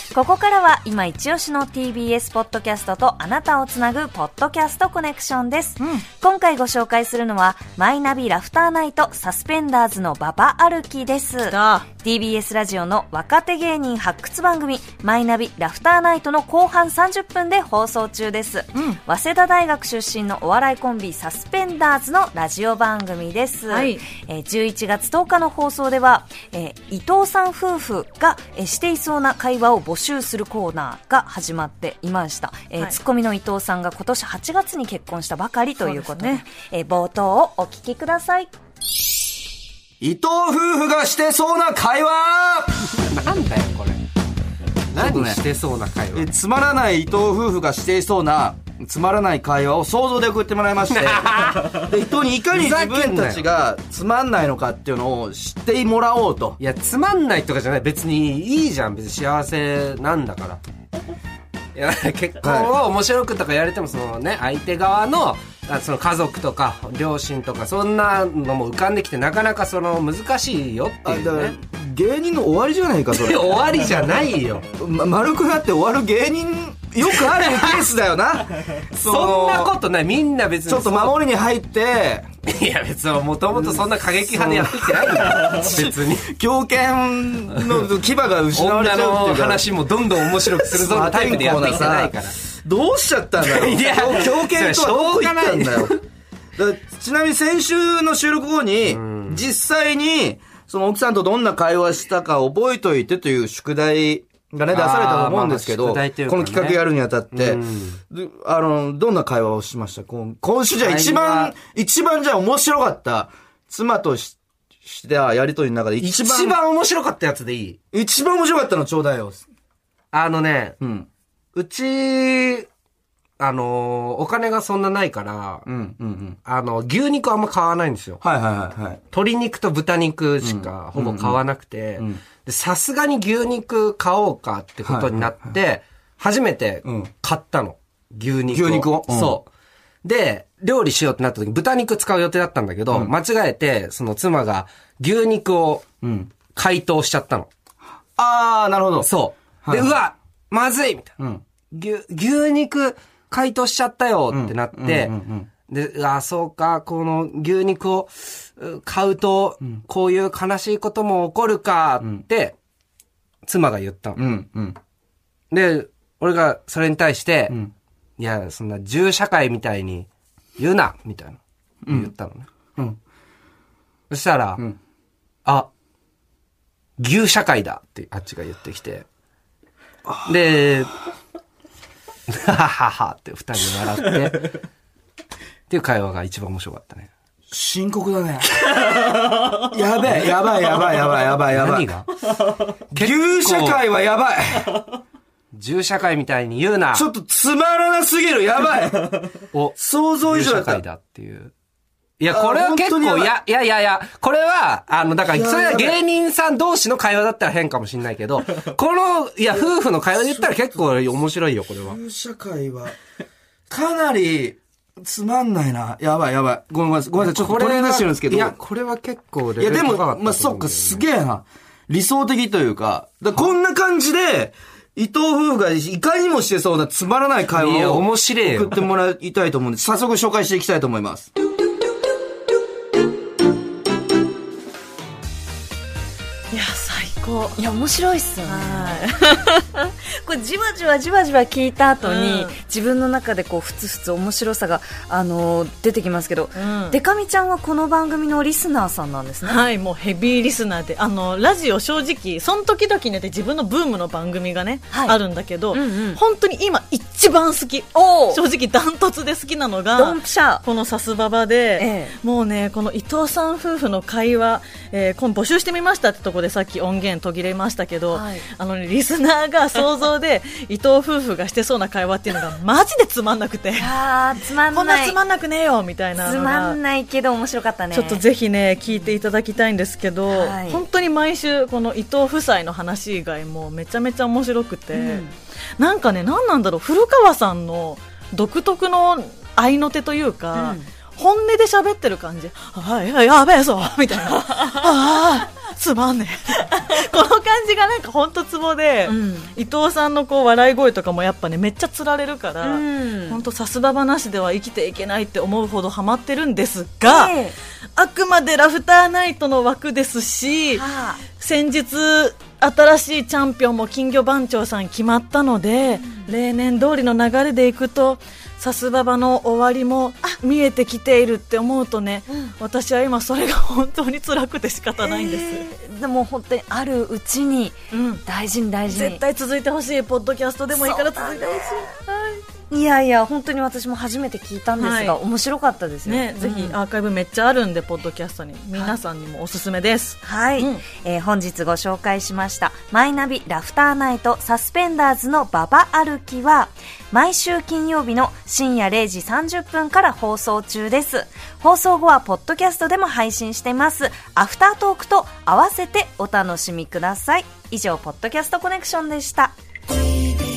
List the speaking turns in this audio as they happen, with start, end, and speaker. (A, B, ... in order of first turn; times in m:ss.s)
0:00.1-0:38.5 A
0:05.8-0:06.0 B
0:11.5-0:11.9 B
0:18.7-0:19.0 B
0:23.7-0:24.0 B
0:35.8-0:36.4 B
0:40.0-0:42.7 C
0:42.8-0:44.0 D
0:44.9-0:46.3 D
0:44.9-0:45.4 C
0:46.1-0:56.6 C
0:50.9-0:53.5 D
0:56.6-1:00.6 D
1:01.7-1:11.5 D
1:02.4-1:02.7 C
1:11.0-1:13.8 C
1:13.1-1:14.6 D
1:14.8-1:19.7 C
1:17.1-1:17.9 D
1:18.9-1:21.2 D
1:20.7-1:22.3 C
1:22.4-1:26.3 D
1:23.5-1:29.7 C
1:27.5-1:27.8 D
1:28.5-1:32.4 D
1:30.4-1:35.9 C
1:33.4-1:36.0 D
1:36.6-1:56.6 C
1:38.8-1:39.5 D
1:44.7-1:48.0 D
1:50.8-1:51.5 D
1:56.0-1:57.8 D
1:57.9-1:59.4 C
2:00.1-2:00.8 D
2:00.8-2:01.1 C
2:01.5-2:02.7 D
2:03.4-2:05.6 D
2:05.7-2:06.4 C
2:06.4-2:08.2 D
2:08.2-2:09.0 C
2:09.1-2:19.5 D
2:10.4-2:11.4 C
2:14.8-2:15.5 C
2:16.8-2:17.1 C
2:18.5-2:19.4 C
2:20.0-2:25.8 D
2:26.0-2:26.3 C
2:26.5-2:27.5 D
2:28.2-2:29.1 C
2:29.0-2:31.1 D
2:29.6-2:30.0 C
2:31.7-2:42.5 D
2:34.3-2:35.5 C
2:43.4-2:44.2 D
2:44.2-2:44.8 C
2:45.5-2:47.6 D
2:48.2-2:52.5 D
2:51.8-2:52.1 C
2:54.1-2:54.6 D
2:57.0-2:59.0 D
3:00.2-3:00.9 D
3:02.3-3:04.5 D
3:05.7-3:07.1 D
3:07.5-3:08.5 C
3:09.6-3:11.9 C
3:11.5-3:12.1 D
3:12.9-3:13.8 D
3:12.9-3:14.8 C
3:15.5-3:17.1 D
3:16.9-3:20.8 C
3:19.5-3:21.5 D
3:22.2-3:32.0 D
3:22.3-3:23.3 C
3:25.3-3:26.0 C
3:30.2-3:30.6 C
3:31.8-3:32.9 C
3:33.7-3:38.6 C
3:37.2-3:41.1 D
3:39.6-3:51.3 C
3:47.5-3:48.8 D
3:56.5-3:57.6 B
3:57.6-4:09.6 A
3:58.4-3:59.3 B
4:02.0-4:02.6 B
4:06.5-4:07.0 B
4:09.4-4:33.9 B
4:14.9-4:15.2 A
4:15.7-4:16.2 A
4:17.9-4:18.4 A
4:19.9-4:20.6 A
4:21.8-4:22.2 A
4:28.1-4:28.4 A
4:33.7-4:35.2 A
4:34.7-4:36.8 B
4:36.2-4:38.2 A
4:37.9-4:45.2 B
4:40.3-4:40.8 A
4:44.9-4:45.3 A
4:45.8-5:07.3 B
4:50.5-4:50.8 A
4:59.0-4:59.5 A
5:02.6-5:03.4 A
5:07.0-5:07.5 A
5:08.0-5:25.6 B
5:10.7-5:11.2 A
5:15.9-5:16.3 A
5:25.0-5:29.2 A
5:27.9-5:28.2 B
5:28.9-5:32.2 B
5:30.7-5:31.8 A
5:32.7-5:36.8 A
5:34.8-5:35.2 B
5:36.0-5:40.8 B
5:40.2-5:59.5 A